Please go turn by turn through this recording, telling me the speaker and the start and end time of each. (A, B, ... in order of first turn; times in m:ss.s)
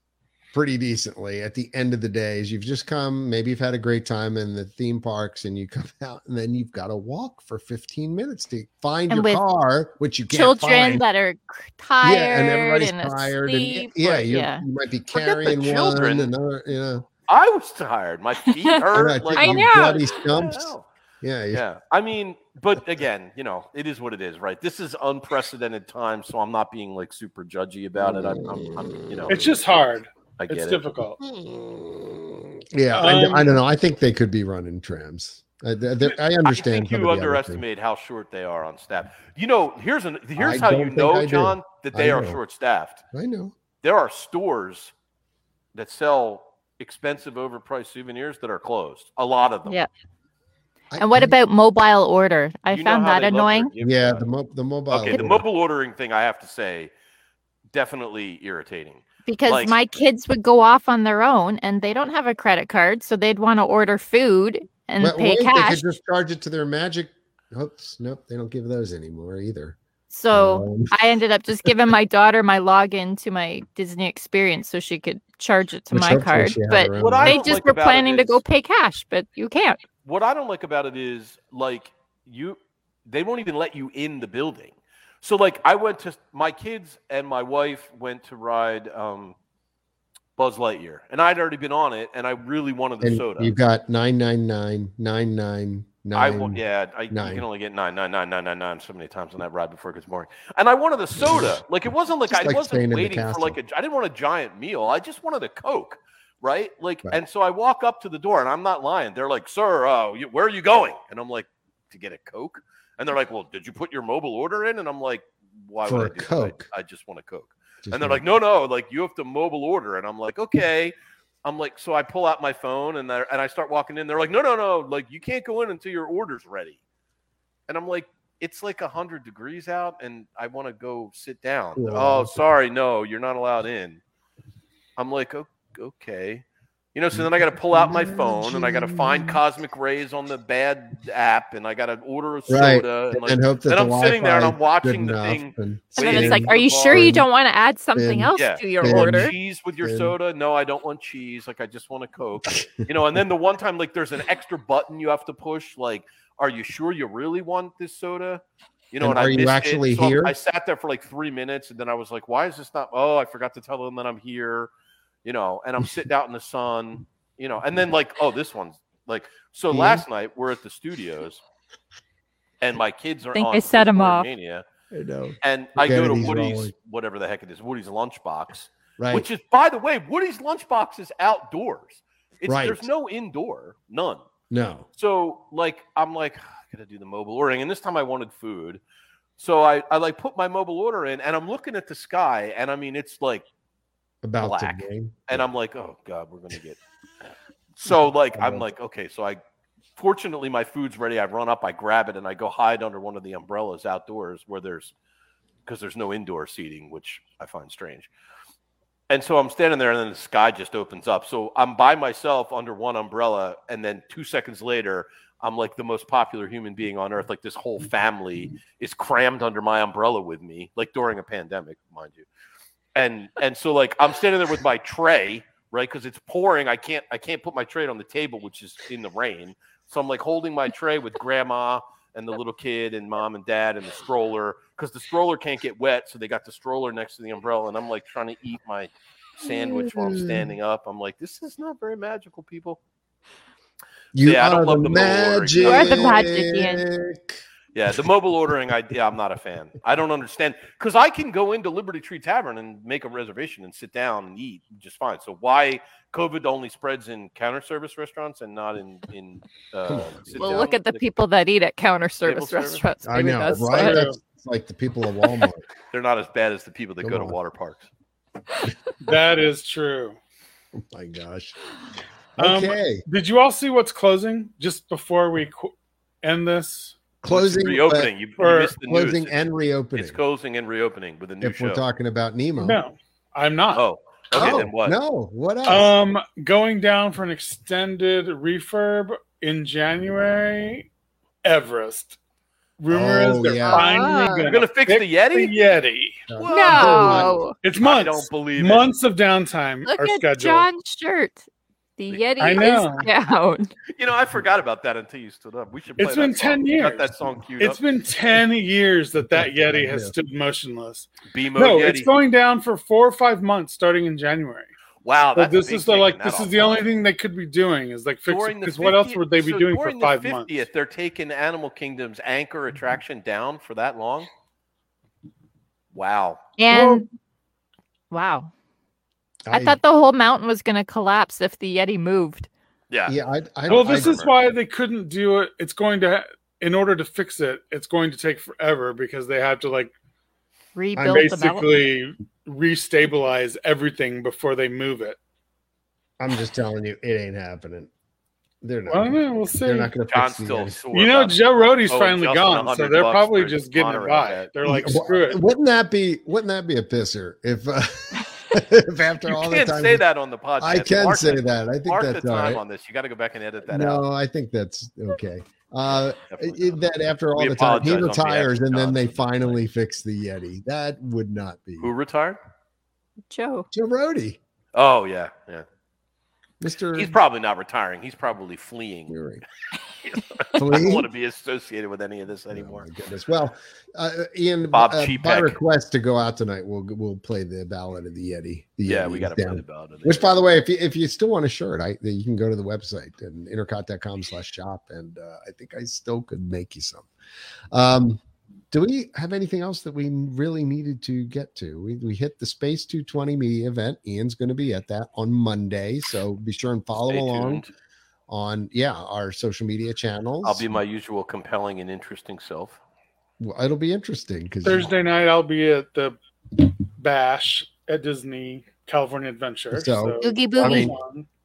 0:00.5-0:11.0 A
0:09.1-0:09.4 B
0:10.3-0:14.6 B
0:12.0-0:17.1 A
0:15.1-0:16.3 C
0:17.3-0:20.8 C
0:18.9-0:21.6 A
0:19.4-0:20.2 B
0:21.5-0:29.4 C
0:28.0-0:29.5 A
0:29.3-0:31.2 D
0:30.4-0:30.8 C
0:31.2-0:37.6 A
0:32.9-0:33.5 D
0:36.4-0:43.0 C
0:40.4-0:42.4 A
0:43.1-0:43.5 A
0:43.8-0:44.9 C
0:45.7-0:49.8 C
0:50.9-0:51.3 A
0:51.0-0:53.7 B
0:52.7-0:54.3 C
0:53.8-0:55.4 A
0:54.9-0:56.9 C
0:57.7-0:59.7 C
0:59.2-1:06.0 B
1:05.0-1:09.8 A
1:10.1-1:19.8 B
1:10.3-1:10.9 A
1:15.9-1:17.5 A
1:17.0-1:18.4 C
1:20.0-1:29.4 C
1:30.4-1:33.6 C
1:33.0-1:37.4 A
1:36.1-2:00.9 C
1:41.2-1:41.6 A
1:42.3-1:43.6 A
1:55.8-1:56.6 A
1:57.8-1:58.2 A
2:01.4-2:06.8 C
2:07.7-2:14.0 C
2:11.8-2:12.4 A
2:15.0-2:16.4 C
2:16.9-2:27.1 C
2:17.1-2:19.4 A
2:22.5-2:27.2 A
2:26.0-2:29.3 B
2:28.0-2:30.1 A
2:28.4-2:44.7 C
2:39.0-2:40.4 A
2:45.2-2:51.4 C
2:49.7-2:50.0 A
2:52.6-2:54.6 C
2:53.3-2:54.3 B
2:54.9-2:56.7 A
2:55.4-3:04.2 C
2:59.0-2:59.2 A
3:02.5-3:02.9 A
3:04.5-3:04.9 A
3:05.0-3:08.8 C
3:09.4-3:13.4 C
3:14.2-3:15.4 A
3:14.4-3:16.8 C
3:17.8-3:19.4 C
3:17.9-3:18.7 A
3:20.0-3:24.9 C
3:25.6-3:28.1 C
3:29.1-3:42.3 C
3:42.9-4:02.8 C
3:59.4-4:00.5 A
4:04.1-4:07.4 A
4:04.2-4:06.3 C
4:05.6-4:06.9 B
4:07.7-4:21.0 C
4:19.8-4:20.6 A
4:20.4-4:24.1 B
4:22.2-4:22.8 C
4:23.0-4:25.6 A
4:23.7-4:24.2 D
4:25.9-4:27.9 C
4:27.0-4:27.4 A
4:29.0-4:30.2 D
4:30.8-4:31.5 A
4:32.4-4:33.0 A
4:32.4-4:37.0 D
4:37.2-4:38.1 A
4:37.3-4:39.4 C
4:38.4-4:38.7 D
4:38.8-4:40.2 A
4:39.9-4:41.8 C
4:41.4-4:42.8 A
4:42.6-4:43.8 D
4:43.7-4:45.0 C
4:44.3-4:45.9 A
4:45.6-4:50.9 D
4:51.4-4:52.2 D
4:52.8-4:56.2 D
4:52.9-4:54.4 A
4:53.7-4:54.4 B
4:54.4-4:55.5 C
4:56.3-4:57.4 A
4:56.3-4:58.9 C
4:56.5-4:57.5 B
4:57.6-5:00.7 D
4:59.8-5:01.4 B
5:02.0-5:03.7 B
5:02.4-5:03.1 D
5:03.9-5:07.8 C
5:06.0-5:14.7 D
5:09.3-5:10.1 A
5:11.3-5:12.1 C
5:15.0-5:16.8 C
5:15.3-5:20.6 D
5:18.3-5:24.3 C
5:25.9-5:26.5 C
5:26.6-5:27.0 B
5:26.7-5:27.0 D
5:28.1-5:28.5 B
5:29.5-5:29.8 A
5:29.5-5:32.5 B
5:32.9-5:34.3 C
5:33.1-5:34.2 A
5:33.7-5:39.9 D
5:40.7-5:41.7 B
5:41.0-5:45.2 D
5:46.2-5:47.9 A
5:48.6-5:50.8 A
5:48.9-5:49.9 D
5:50.1-5:54.5 C
5:50.9-5:55.4 D
5:54.6-6:00.0 A
5:59.2-6:04.0 C
6:00.6-6:02.6 A
6:03.7-6:11.9 A
6:06.3-6:06.8 C
6:07.4-6:09.6 C
6:11.8-6:12.4 C
6:13.3-6:13.7 B
6:13.7-6:14.4 A
6:14.7-6:15.6 C
6:16.6-6:17.2 A
6:16.9-6:19.2 C
6:19.1-6:19.4 A
6:20.0-6:22.8 C
6:20.5-6:21.1 A
6:22.5-6:37.1 A
6:24.7-6:25.6 C
6:28.8-6:30.3 C
6:37.7-6:47.6 A
6:47.1-6:47.7 C
6:48.3-6:50.7 A
6:50.4-6:52.8 C
6:53.4-6:54.9 A
6:54.6-7:01.2 D
6:59.7-7:00.9 A
7:00.2-7:00.9 B